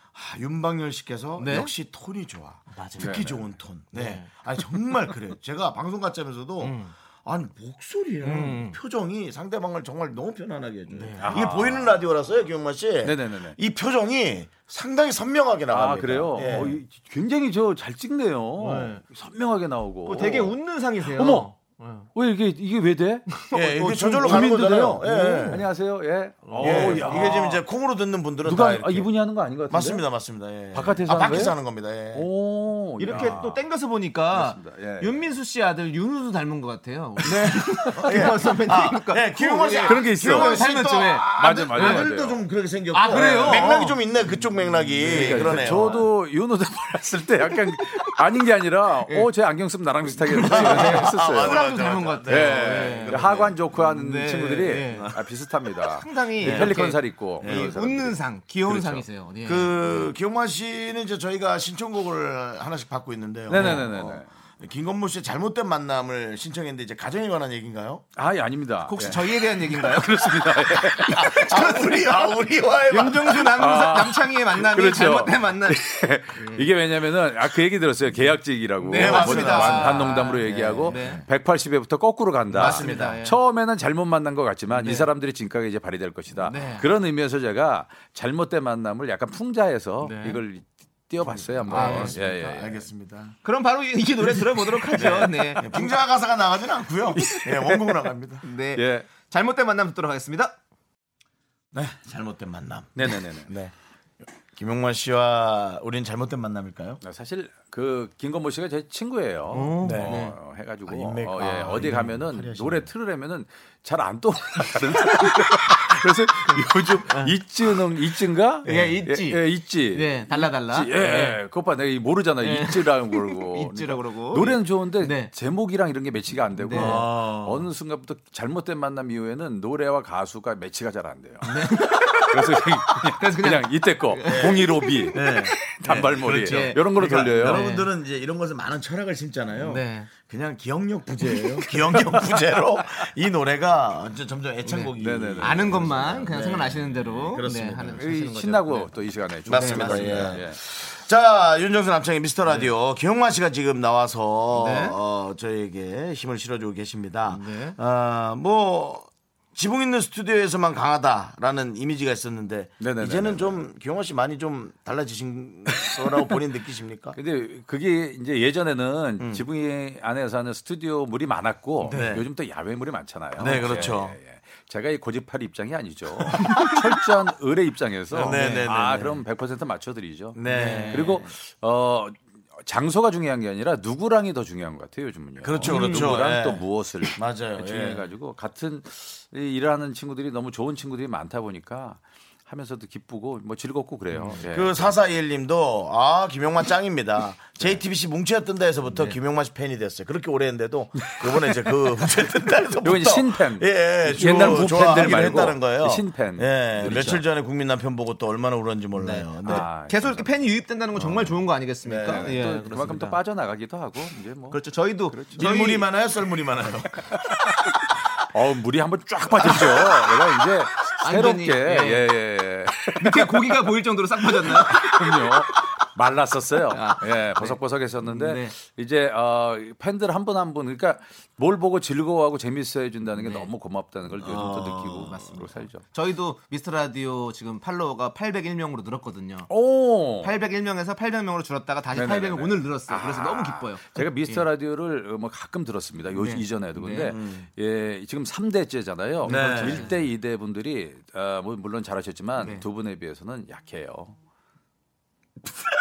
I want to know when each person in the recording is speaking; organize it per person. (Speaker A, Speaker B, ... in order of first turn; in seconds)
Speaker A: 0.1-16.8, 23.5-25.7, 26.6-29.1, 29.7-32.3, 33.1-33.4, 37.2-46.0, 50.5-53.6, 54.9-55.2, 56.4-56.9, 57.4-57.7, 59.4-68.0, 71.1-73.5, 78.9-81.2, 82.5-83.2, 91.2-93.4, 94.9-98.4, 101.7-103.7, 104.5-107.0, 109.8-110.2, 110.9-112.9, 118.7-119.0, 126.7-127.7, 134.3-148.0, 149.4-167.2, 169.2-169.4, 171.9-172.3, 173.4-174.2, 178.1-179.2, 180.3-181.3, 185.4-188.1, 194.4-209.7, 211.8-212.3, 215.3-217.0, 234.2-235.2, 247.1-247.5, 249.2-249.9
Speaker B: 1.4-1.7, 2.7-3.4, 3.9-4.3, 6.6-6.9, 8.2-8.8, 10.9-11.4, 16.4-16.7, 18.6-19.0, 20.1-22.1, 23.3-24.6, 25.2-25.6, 26.4-27.6, 33.0-42.1, 42.9-44.0, 44.9-46.0, 50.1-55.1, 56.0-59.9, 63.5-63.9, 68.9-70.3, 71.0-72.4, 72.9-75.8, 76.3-76.7, 78.8-81.2, 82.5-83.4, 84.7-85.1, 86.4-86.9, 90.0-90.4, 91.7-92.5, 93.4-95.9, 98.4-100.5, 109.5-110.3, 116.5-117.3, 118.6-121.4, 122.4-125.3, 126.6-127.0, 131.4-135.4, 135.9-137.9, 139.5-140.1, 144.6-150.3, 152.4-152.7, 154.5-155.0, 157.3-157.8, 171.8-172.2, 173.4-173.8, 176.4-176.8, 178.1-178.7, 180.4-181.2, 185.6-186.1, 194.1-194.4, 198.9-199.2, 208.9-213.2, 214.5-215.9, 221.0-222.1, 222.9-224.9, 226.7-228.5, 233.1-233.5, 235.0-239.5, 240.2-244.4, 246.1-247.1, 249.2-249.9, 252.4-252.6
Speaker C: 3.0-3.4, 11.2-12.1, 13.0-13.6, 15.7-21.5, 22.1-23.3, 24.1-27.6, 28.4-30.0, 30.7-31.6, 32.1-33.6, 34.3-35.2, 37.3-38.5, 39.6-40.6, 41.2-42.4, 43.1-43.9, 45.0-51.7, 52.2-59.0, 63.5-64.3, 68.2-71.4, 73.5-92.8, 94.9-95.5, 97.1-98.0, 98.7-99.1, 103.0-103.5, 107.0-137.6, 145.0-146.3, 147.9-150.6, 162.8-163.7, 167.2-194.9, 201.0-201.4, 202.8-207.2, 209.4-210.4, 210.9-211.4, 212.0-215.4, 217.1-217.4, 218.3-223.7, 224.4-235.8, 239.5-240.4, 241.9-254.2